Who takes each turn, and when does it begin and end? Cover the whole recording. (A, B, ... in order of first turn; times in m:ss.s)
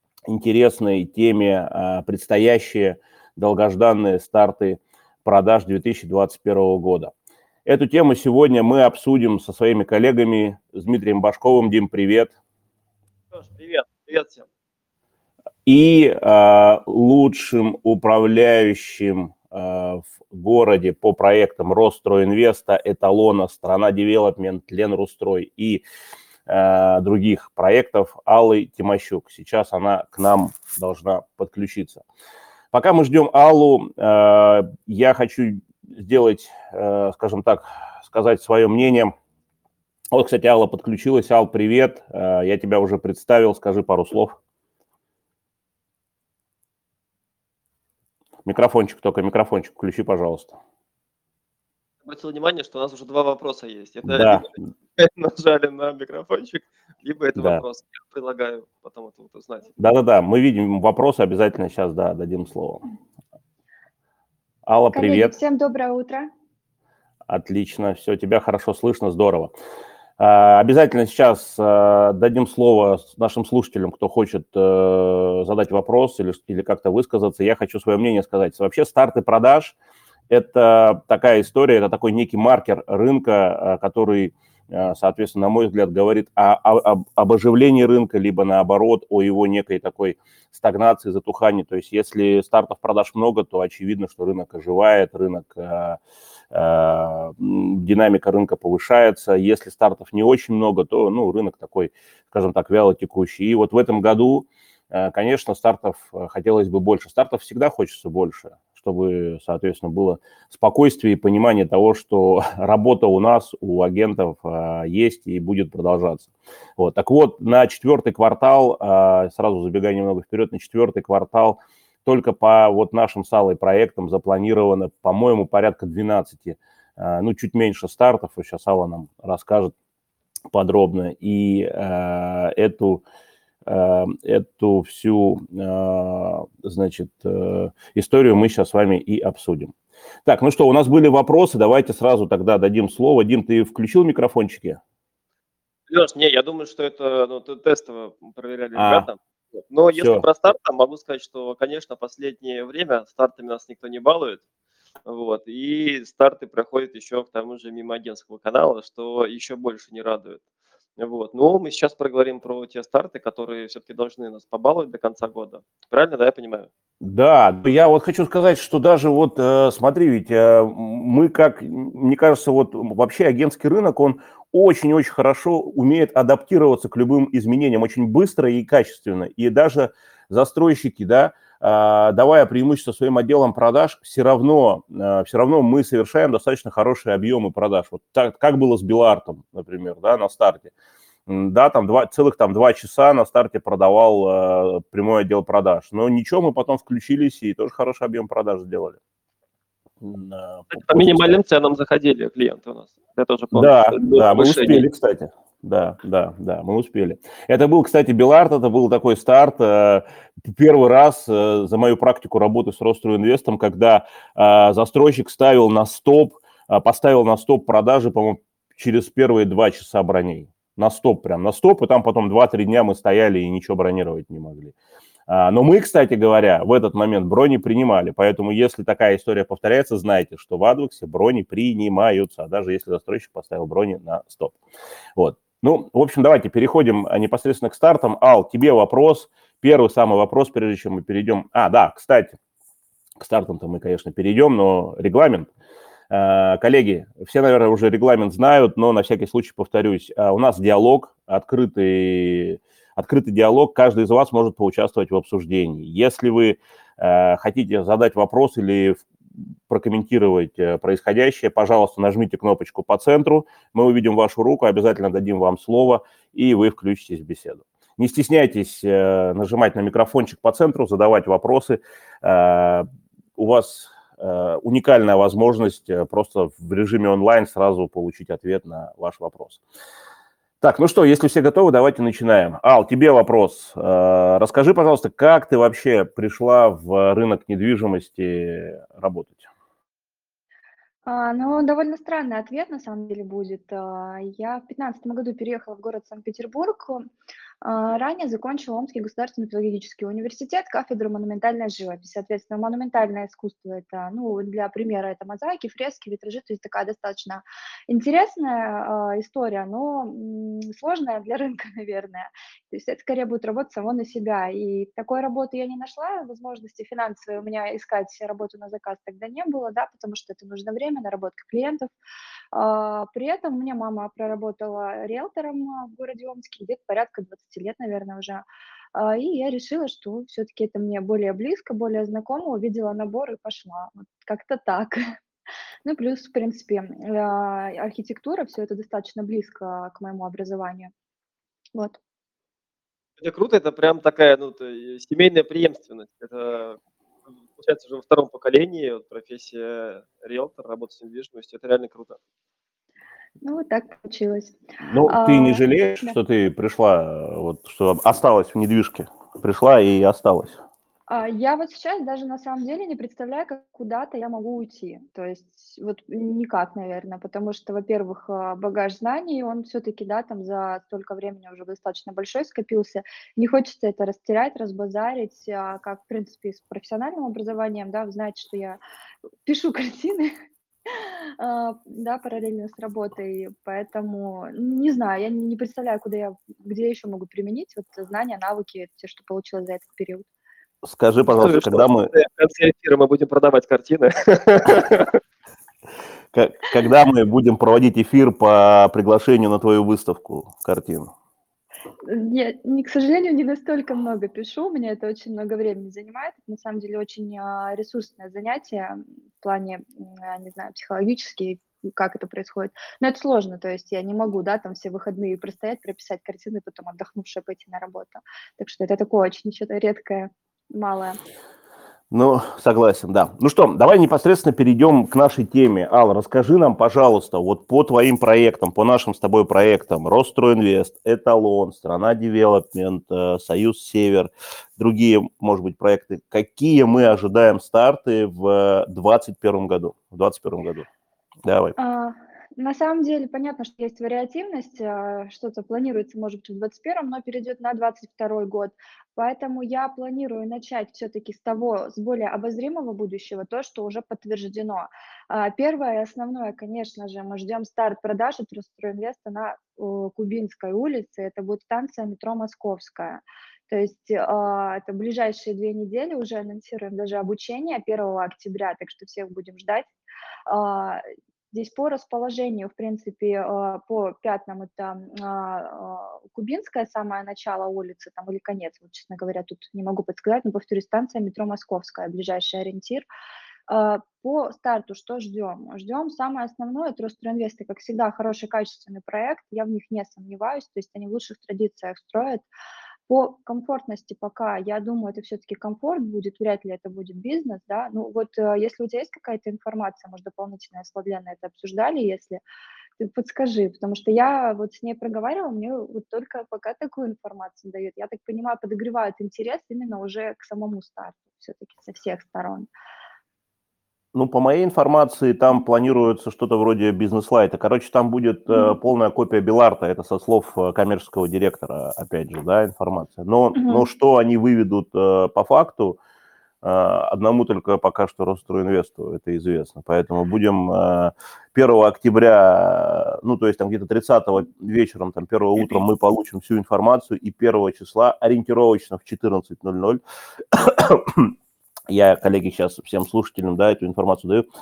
0:00.3-0:07.1 A
0:07.6-0:12.3 A
0:13.3-0:14.4 B
0:15.6-0:25.8 A
0:26.5-0:32.0 A
0:32.7-0:39.1 A
0:40.1-0:44.4 A
0:48.4-0:50.6 A
0:52.0-0:59.7 B
0:54.0-0:54.5 A
0:57.4-0:57.6 A
0:59.8-1:02.8 A
1:04.6-1:05.3 A
1:04.9-1:06.3 C
1:07.3-1:09.5 A
1:10.2-1:19.7 A
1:20.3-1:36.0 A
1:36.5-2:09.7 A
2:10.5-2:13.0 A
2:13.7-2:19.7 A
2:20.2-2:24.8 A
2:25.9-2:34.4 B
2:28.7-2:29.1 A
2:29.9-2:30.2 A
2:35.0-2:40.4 B
2:41.0-2:46.7 B
2:47.0-3:10.7 A
3:11.3-3:19.0 A
3:20.0-3:21.4 A
3:20.7-3:24.9 B
3:23.5-3:44.7 A
3:45.3-3:54.6 A
3:55.2-4:02.4 A
4:03.2-4:05.5 A
4:06.1-4:19.0 A
4:19.7-4:39.6 A
4:40.6-4:49.5 A
4:51.0-4:57.1 C
4:57.6-5:21.9 C
5:22.5-5:35.0 C
5:35.8-5:40.9 C
5:43.2-5:46.8 B
5:47.6-5:52.2 B
5:53.4-5:56.2 C
5:54.8-6:00.6 A
6:01.1-6:18.8 C
6:19.4-6:20.3 C
6:20.9-6:30.3 C
6:30.8-6:32.1 A
6:31.4-6:35.2 B
6:36.3-6:41.1 A
6:42.0-7:01.2 C
7:02.1-7:20.9 A
7:21.4-7:21.8 A
7:21.8-7:49.9 C
7:50.5-8:03.0 C
8:03.7-8:12.5 C
8:13.1-8:22.4 C
8:23.0-8:32.7 C
8:34.1-8:46.0 A
8:43.5-8:43.8 C
8:46.6-9:00.0 A
9:00.5-9:01.3 A
9:01.9-9:04.4 A